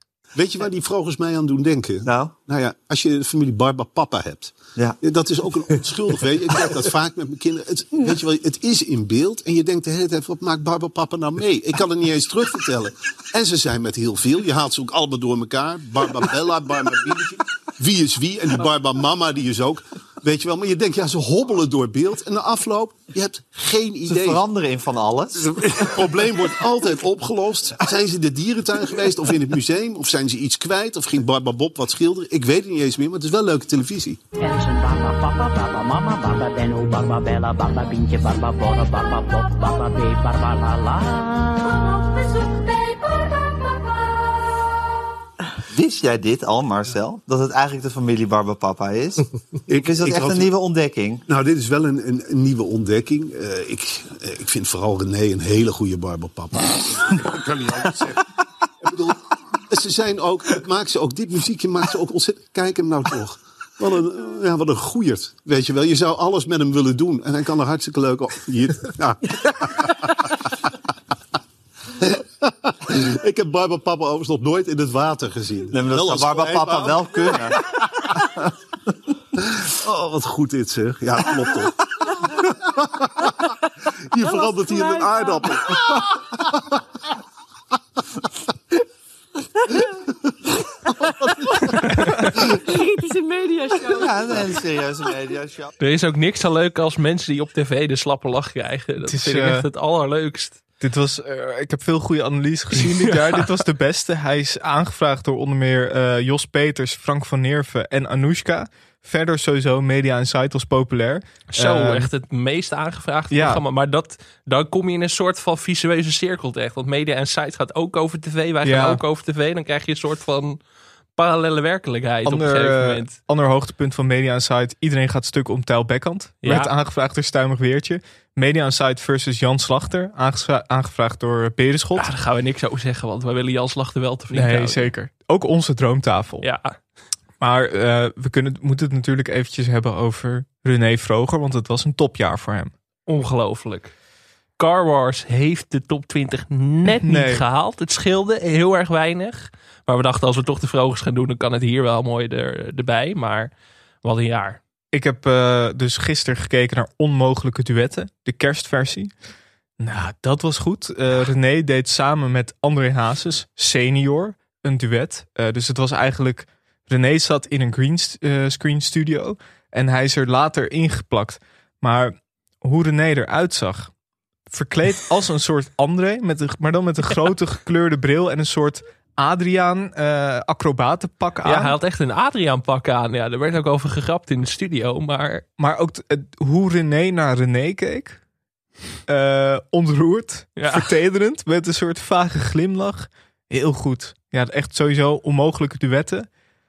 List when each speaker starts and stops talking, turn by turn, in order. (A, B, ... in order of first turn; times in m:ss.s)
0:00.3-0:24.4 A
0:02.0-0:02.4 B
0:24.0-0:25.6 B
0:25.4-0:34.2 A
0:34.4-0:41.7 C
0:41.6-0:43.9 D
0:45.7-0:49.2 B
0:49.7-0:50.5 A
0:49.9-0:51.2 B
0:51.2-0:57.9 A
0:58.9-0:59.1 A
0:59.7-1:10.3 A
1:12.7-1:18.4 A
1:15.7-1:17.6 B
1:19.7-1:22.7 A
1:24.1-1:26.2 A
1:32.7-1:34.5 D
1:33.9-1:35.7 B
1:35.8-1:40.6 E
1:39.0-1:39.7 F
1:40.8-1:52.1 F
1:42.8-1:43.5 E
1:51.5-2:00.6 E
1:53.3-1:53.6 F
1:58.6-1:59.0 F
2:01.2-2:03.2 E
2:02.2-2:12.1 F
2:06.4-2:06.7 E
2:12.0-2:14.9 E
2:14.3-2:16.4 F
2:16.4-2:16.8 E
2:17.4-2:22.7 F
2:23.1-2:23.9 E
2:24.6-2:33.5 E
2:26.9-2:27.4 F
2:34.0-2:34.6 E
2:34.9-2:39.1 F
2:39.8-2:53.9 F
2:54.5-3:01.7 F
3:01.4-3:05.4 E
3:05.6-3:08.2 F
3:09.1-3:16.3 F
3:10.6-3:10.8 E